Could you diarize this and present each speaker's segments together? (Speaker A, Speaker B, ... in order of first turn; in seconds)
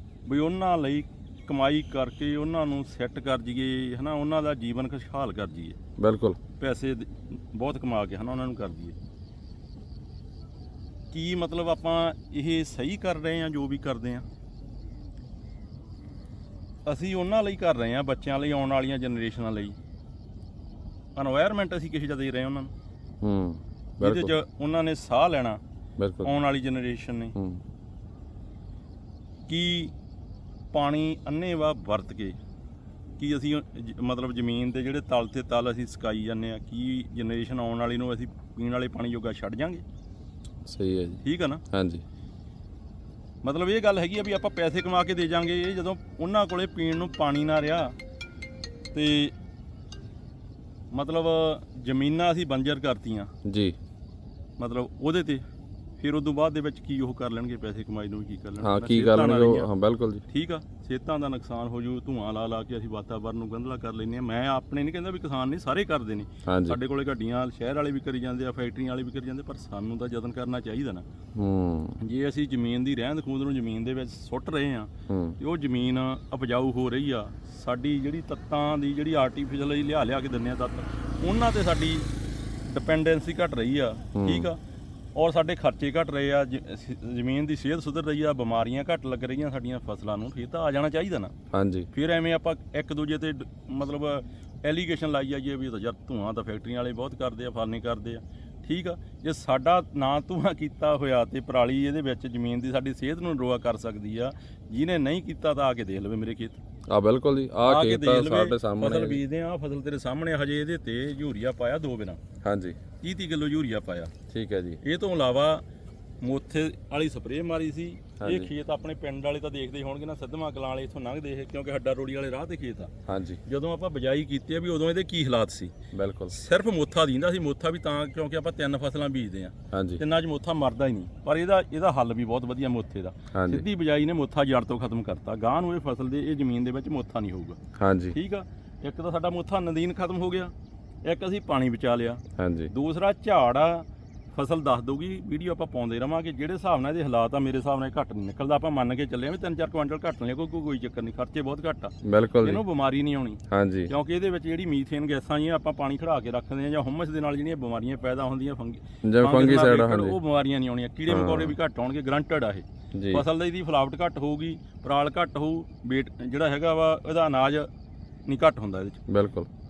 Speaker A: 0.3-5.8, 6.6-8.9, 11.1-14.2, 16.9-19.8, 21.2-22.7, 24.0-25.6, 26.2-27.3, 29.5-29.9, 30.7-32.4, 33.2-39.8, 41.2-41.6, 43.4-48.0, 48.9-49.3, 50.9-53.3, 54.6-55.4, 56.0-59.7, 60.3-71.0, 72.0-82.1, 82.7-84.6, 85.2-91.3, 91.9-106.6, 107.6-112.2, 113.0-114.1, 114.8-115.6, 116.2-122.9, 123.5-125.7, 126.3-137.6, 138.1-140.5, 141.0-167.7, 168.3-169.0
Speaker B: 6.0-6.4, 23.2-24.3, 26.0-26.4, 27.4-27.6, 40.7-41.2, 41.7-42.0, 53.4-53.8, 58.6-60.2, 66.5-66.8, 71.3-72.0, 75.1-75.4, 84.2-84.5, 91.5-91.9, 106.9-109.2, 112.4-112.8, 114.3-114.8, 118.2-118.5, 123.1-123.4, 125.9-126.3, 129.7-130.0, 133.3-133.6, 137.8-138.2, 142.4-142.7, 152.0-152.6, 153.5-153.9, 159.0-160.2, 161.1-161.5, 162.9-163.2, 169.1-169.5